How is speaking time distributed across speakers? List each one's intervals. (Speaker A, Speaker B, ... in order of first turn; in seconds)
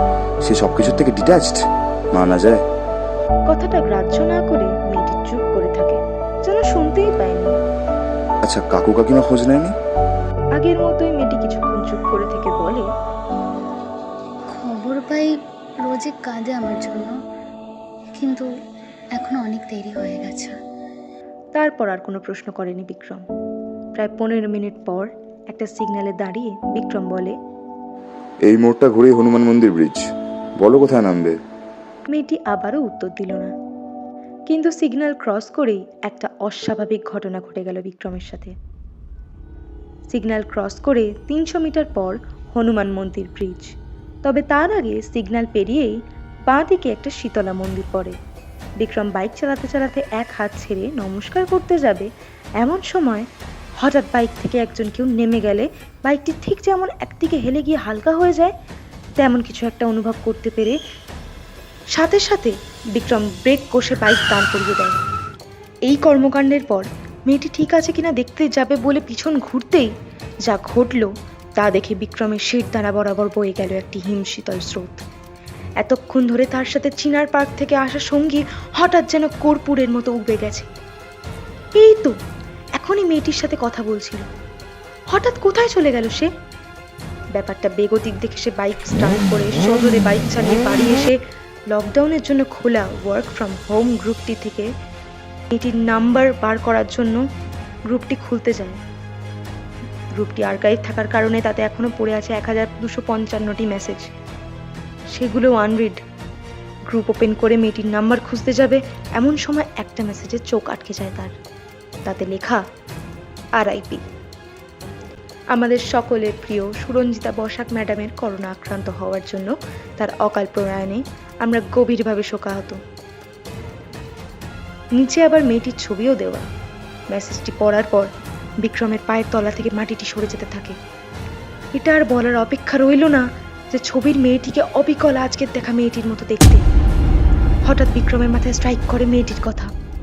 Speaker A: 0.4-1.6, 2.1-2.6, 8.4-9.8, 28.5-30.1, 30.6-31.4
Speaker B: 3.5-7.5, 10.6-12.9, 21.6-23.2, 24.0-27.4, 32.1-33.5, 34.5-38.5, 40.1-43.7, 44.2-45.9, 46.5-48.2, 48.8-52.1, 52.6-53.3, 53.8-58.5, 59.2-60.8, 61.9-65.0, 65.9-69.9, 70.5-75.0, 75.8-80.7, 81.8-82.2, 82.8-84.2, 85.1-86.3, 87.3-91.2, 91.7-94.7, 95.5-97.2, 97.9-98.8, 100.2-104.1, 105.2-106.0, 106.9-111.3, 112.1-112.6, 113.6-114.0, 115.5-122.8, 125.0-126.5, 127.1-128.1, 128.6-130.8, 131.8-136.6, 137.7-139.7
Speaker C: 14.5-15.3, 15.8-17.1, 18.2-18.5, 19.2-20.6